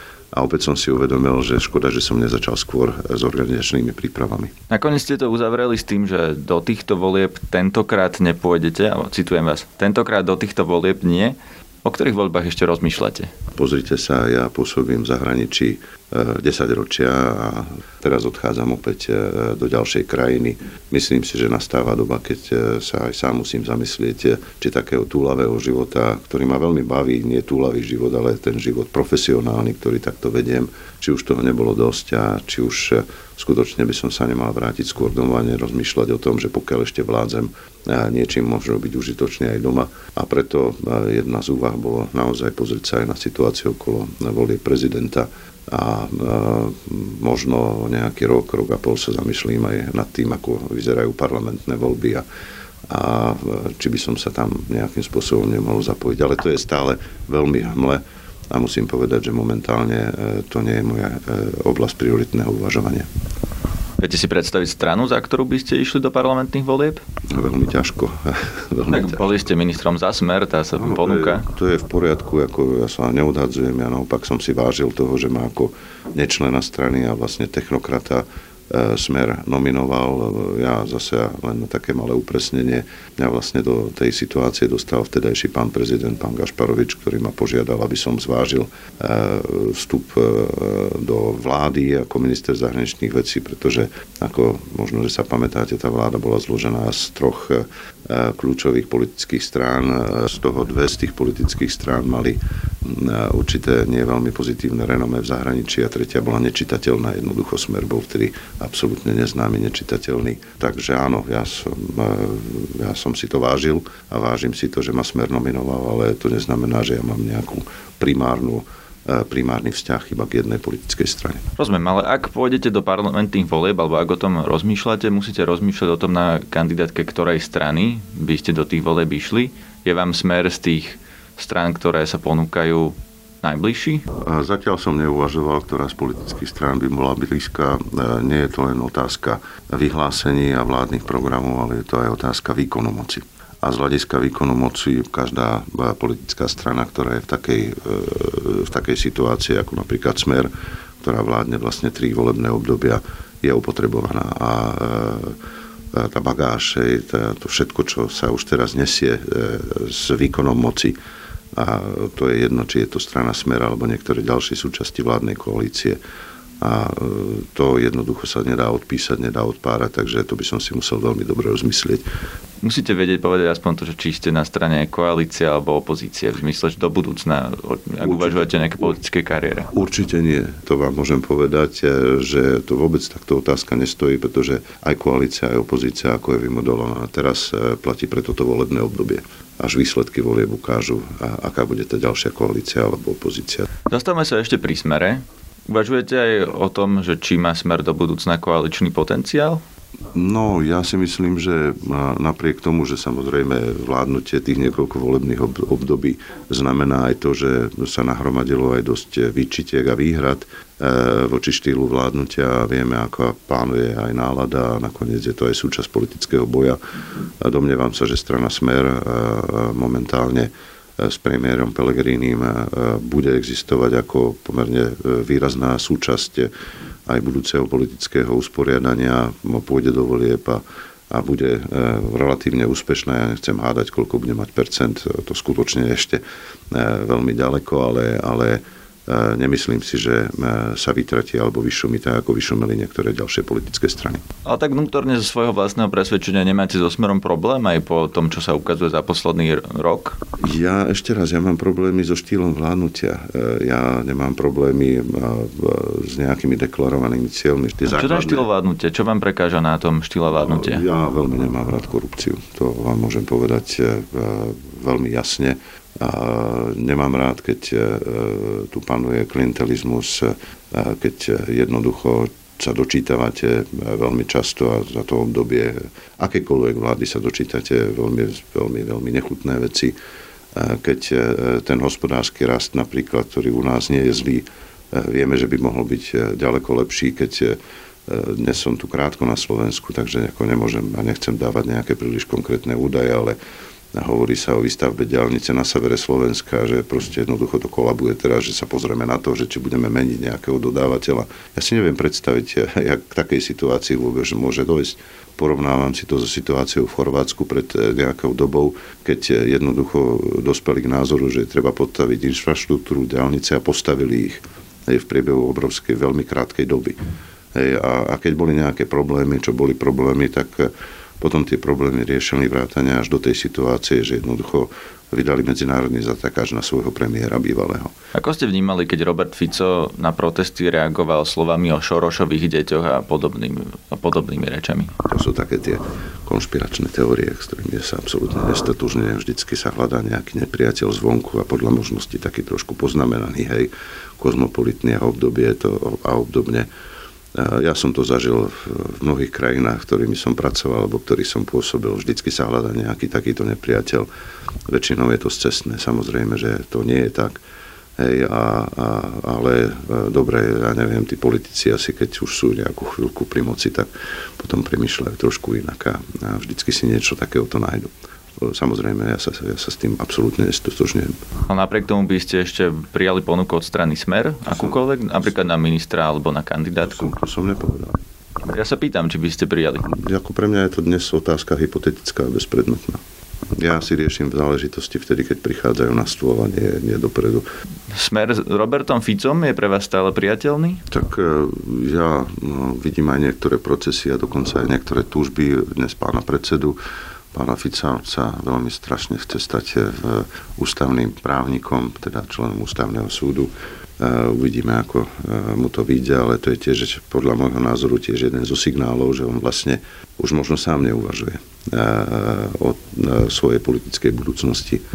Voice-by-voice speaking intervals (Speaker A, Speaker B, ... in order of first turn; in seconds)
Speaker A: 0.3-4.5, 13.6-52.2, 52.9-63.1, 67.3-69.3, 70.8-121.4, 134.2-150.5, 151.0-155.3, 155.9-161.0, 161.6-166.0, 166.6-172.1, 178.0-178.9, 179.7-193.7, 200.1-216.8, 217.4-226.5, 227.1-236.2, 236.7-244.2, 250.4-258.5, 260.3-279.9, 280.6-293.4, 293.9-317.0, 317.6-327.9, 335.1-346.7, 347.4-354.1, 354.7-357.4, 358.0-371.2, 376.8-378.0, 379.9-383.0, 383.5-387.4, 390.9-396.8, 397.3-414.8
Speaker B: 4.7-13.3, 64.0-67.0, 68.9-71.5, 121.6-134.1, 172.6-179.7, 193.9-199.6, 244.4-250.2, 257.9-260.9, 328.1-334.9, 371.5-377.1, 378.4-379.9, 387.9-390.8